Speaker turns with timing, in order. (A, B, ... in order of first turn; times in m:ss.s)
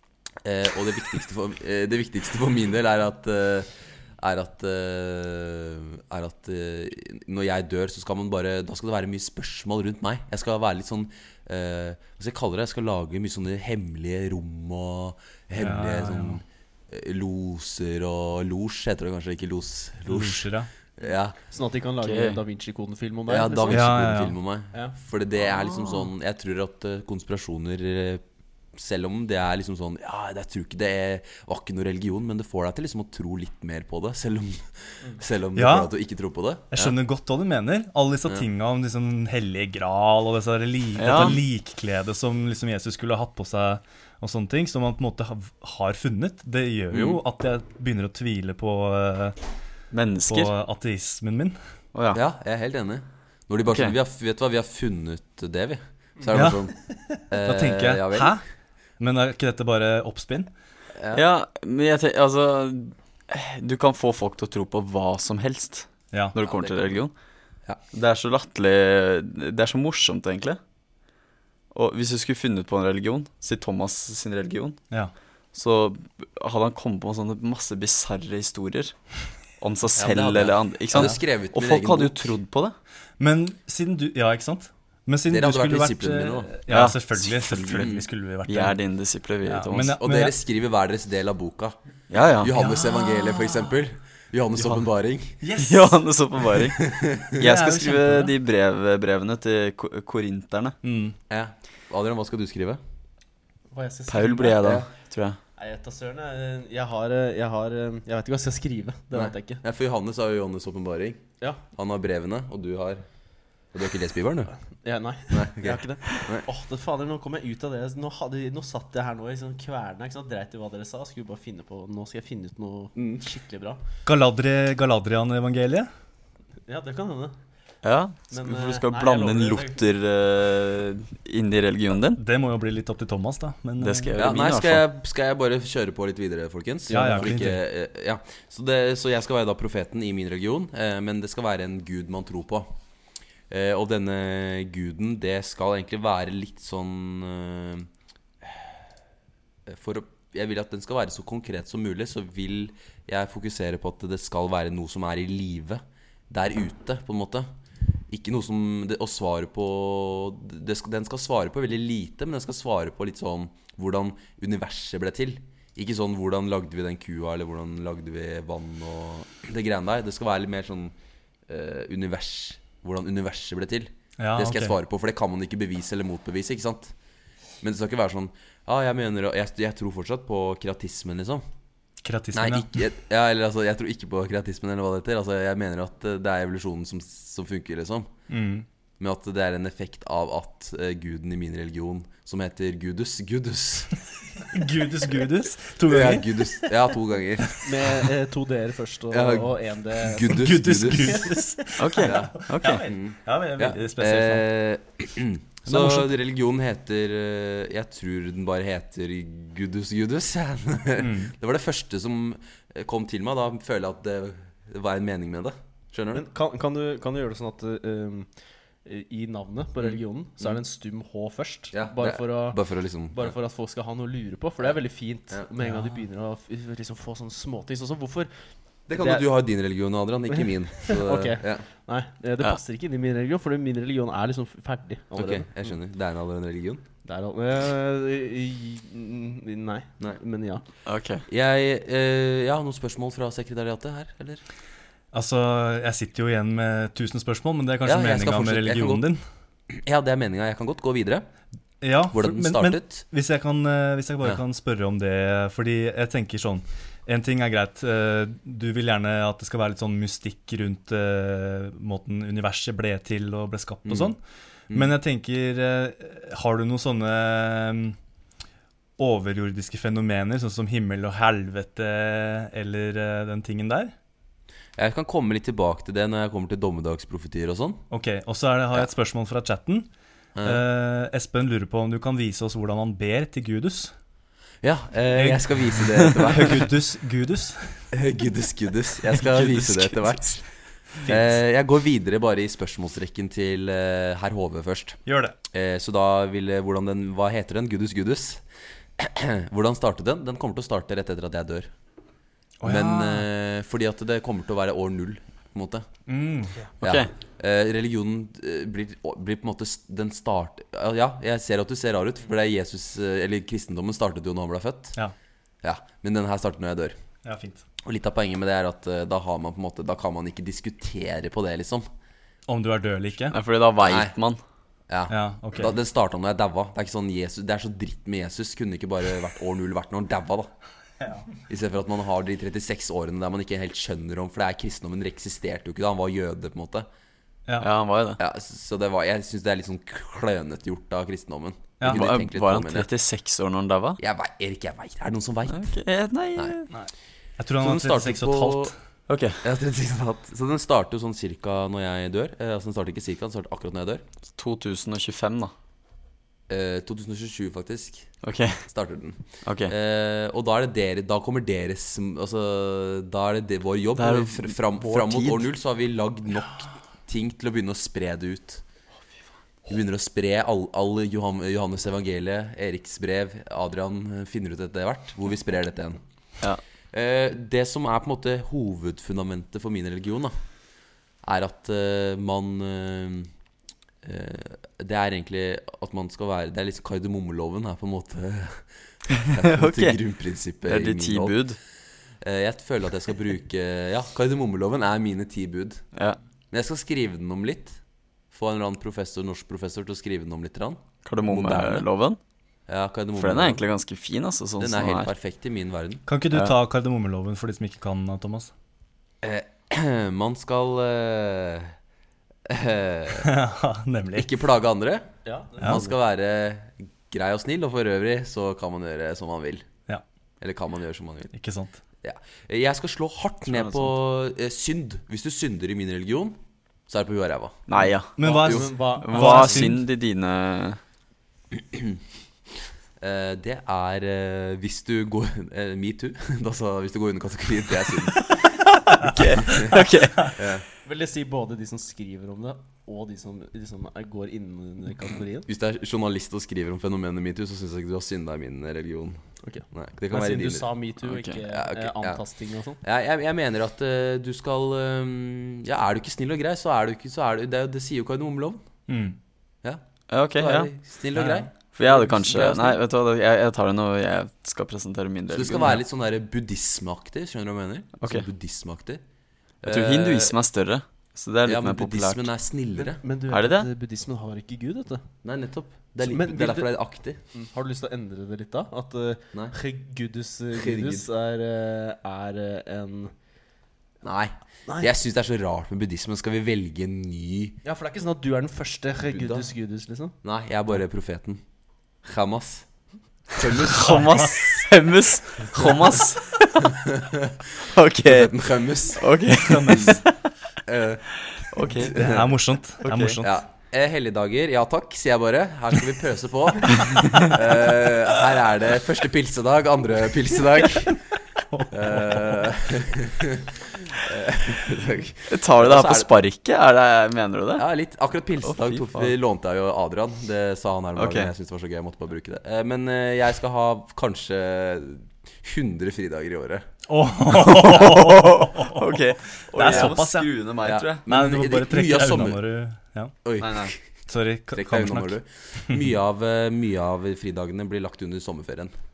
0:00.4-0:21.4 A
0:15.6-0:16.4 B
0:20.1-0:20.7 B
0:21.4-0:23.9 C
0:22.0-0:22.4 D
0:23.3-0:28.2 A
0:23.7-0:24.4 B
0:25.6-0:26.0 C
0:28.8-0:36.9 A
0:35.6-0:35.9 B
0:36.7-0:49.4 B
0:41.0-0:41.4 D
0:46.9-0:47.2 A
0:49.9-0:50.5 D
0:50.2-0:51.6 B
0:51.9-0:52.2 D
0:52.1-0:56.8 A
0:53.7-0:54.0 D
0:56.3-0:56.6 B
0:57.3-0:58.3 A
0:57.3-0:58.4 B
0:59.0-1:00.5 B
1:01.0-1:01.2 A
1:01.1-1:07.1 D
1:06.1-1:06.4 B
1:06.4-1:07.0 A
1:07.9-1:10.6 D
1:11.7-1:14.8 D
1:15.5-1:19.0 D
1:19.6-1:22.8 D
1:20.0-1:22.2 A
1:23.2-1:28.8 B
1:25.3-1:26.5 A
1:26.7-1:27.9 D
1:27.8-1:28.0 A
1:28.5-1:30.0 D
1:29.4-1:30.4 B
1:29.8-1:31.8 A
1:32.1-1:32.5 D
1:32.4-1:35.4 A
1:32.5-1:33.7 B
1:35.4-1:36.0 B
1:35.6-1:40.8 D
1:36.8-1:37.3 A
1:37.4-1:38.3 B
1:40.8-1:41.2 B
1:41.3-1:42.8 A
1:43.7-1:44.8 C
1:44.1-1:45.4 D
1:44.6-1:44.9 A
1:45.6-1:49.6 C
1:49.1-1:53.0 A
1:53.7-1:54.5 A
1:54.8-2:03.8 C
1:55.3-1:56.5 A
2:03.0-2:03.2 A
2:04.1-2:05.9 B
2:06.7-2:07.4 C
2:07.8-2:12.2 D
2:08.3-2:09.8 C
2:12.2-2:14.1 B
2:13.8-2:14.8 D
2:14.2-2:22.7 A
2:16.9-2:17.4 C
2:16.9-2:17.6 B
2:23.5-2:27.9 A
2:29.7-2:37.5 A
2:38.1-2:51.0 A
2:51.5-2:56.9 A
2:54.2-2:54.8 B
2:57.6-3:01.4 A
3:02.0-3:02.7 B
3:02.3-3:08.1 A
3:08.3-3:08.6 B
3:09.0-3:13.9 A
3:14.5-3:16.7 B
3:15.9-3:17.6 A
3:17.6-3:20.4 C
3:19.1-3:21.4 A
3:20.2-3:24.4 B
3:21.8-3:22.9 D
3:22.0-3:36.2 A
3:25.7-3:26.1 B
3:31.0-3:31.3 B
3:36.1-3:38.3 C
3:38.8-3:42.6 C
3:39.8-3:40.6 A
3:41.7-3:43.4 A
3:43.1-3:48.3 C
3:45.6-3:46.0 B
3:48.9-3:51.6 A
3:49.0-3:49.3 C
3:50.3-3:55.5 C
3:55.1-3:56.8 A
3:57.0-4:00.6 C
4:00.9-4:01.2 D
4:01.3-4:04.4 A
4:05.1-4:09.2 B
4:07.8-4:09.1 A
4:09.7-4:11.2 A
4:11.8-4:24.2 B
4:12.1-4:13.0 A
4:23.8-4:24.1 A
4:24.7-4:28.0 B
4:29.0-4:33.9 B
4:34.8-4:37.8 A
4:37.9-4:39.9 B
4:40.4-4:40.6 A
4:40.4-4:43.9 B
4:44.6-4:46.7 A
4:45.1-4:47.9 B
4:47.9-4:58.4 A
4:49.2-4:50.3 D
4:55.0-4:55.4 B
4:59.0-5:01.7 A
5:02.6-5:03.2 B
5:02.6-5:05.9 A
5:06.1-5:06.6 B
5:06.8-5:07.1 D
5:06.8-5:15.0 A
5:15.6-5:17.0 A
5:17.2-5:17.6 B
5:17.8-5:21.9 A
5:22.5-5:23.4 B
5:23.3-5:24.4 D
5:23.8-5:24.1 A
5:24.9-5:30.5 A
5:25.1-5:25.8 B
5:31.5-5:36.9 A
5:37.6-5:38.2 D
5:38.2-5:42.9 A
5:41.8-5:42.0 B
5:41.8-5:44.0 D
5:44.0-5:45.7 A
5:45.5-5:46.7 D
5:46.7-5:48.7 B
5:47.6-5:48.7 A
5:49.1-5:49.4 D
5:49.4-5:54.0 A
5:54.4-5:55.5 D
5:56.5-5:58.1 A
5:58.2-5:58.6 D
5:58.6-6:08.6 A
5:59.4-5:59.7 D
6:04.0-6:05.5 D
6:09.7-6:16.0 A
6:16.9-6:20.4 A
6:21.2-6:23.3 A
6:24.0-6:31.5 A
6:29.4-6:30.0 D
6:30.6-6:31.6 D
6:32.2-6:35.8 A
6:35.9-6:36.2 D
6:36.5-6:37.8 A
6:38.3-6:41.9 A
6:41.0-6:42.2 D
6:42.7-6:43.6 A
6:43.2-6:45.1 D
6:44.6-6:46.0 A
6:46.1-6:48.5 B
6:49.2-6:51.8 A
6:52.5-6:53.3 A
6:53.2-6:54.3 B
6:54.2-6:59.6 A
6:55.2-6:55.9 C
7:00.4-7:01.3 A
7:01.3-7:01.8 B
7:02.0-7:06.4 A
7:03.5-7:03.9 D
7:06.9-7:07.6 A
7:07.7-7:08.1 D
7:07.8-7:09.7 C
7:08.2-7:09.8 B
7:08.2-7:08.7 A
7:09.0-7:10.8 D
7:11.5-7:12.0 A
7:13.0-7:18.3 A
7:18.9-7:20.4 D
7:19.5-7:20.6 A
7:20.8-7:25.5 C
7:25.5-7:30.7 A
7:29.4-7:32.8 C
7:31.0-7:31.4 D
7:31.4-7:32.2 A
7:32.8-7:38.6 A
7:38.9-7:39.2 B
7:40.1-7:40.7 D
7:40.3-7:42.8 A
7:41.1-7:41.5 B
7:41.8-7:45.8 D
7:45.3-7:49.0 A
7:48.0-7:48.2 D
7:49.6-7:50.4 A
7:49.6-7:52.3 D
7:51.5-7:53.0 A
7:52.8-7:55.1 C
7:53.3-7:53.7 D
7:55.2-7:57.2 A
7:56.0-7:56.7 C
7:57.3-8:03.1 C
8:00.6-8:01.1 A
8:04.0-8:07.6 A
8:07.6-8:10.1 C
8:09.1-8:09.5 A
8:10.2-8:11.4 A
8:12.0-8:12.7 A
8:13.3-8:14.2 A
8:13.6-8:16.8 D
8:13.8-8:14.3 B
8:16.7-8:17.4 A
8:17.6-8:20.1 D
8:18.0-8:19.1 A
8:19.3-8:20.0 B
8:20.6-8:22.3 A
8:21.4-8:22.1 D
8:21.8-8:23.3 B
8:22.8-8:23.2 D
8:23.2-8:31.1 A
8:31.5-8:32.4 B
8:31.7-8:36.1 A
8:35.3-8:37.6 D
8:37.6-8:46.6 A
8:38.4-8:39.1 D
8:41.0-8:41.3 D
8:46.9-8:50.3 B
8:47.3-8:51.0 D
8:49.6-8:49.9 A
8:50.6-8:52.4 A
8:51.1-8:53.1 B
8:53.2-8:53.8 A
8:53.4-8:53.7 D
8:54.1-8:55.1 B
8:54.5-8:58.7 A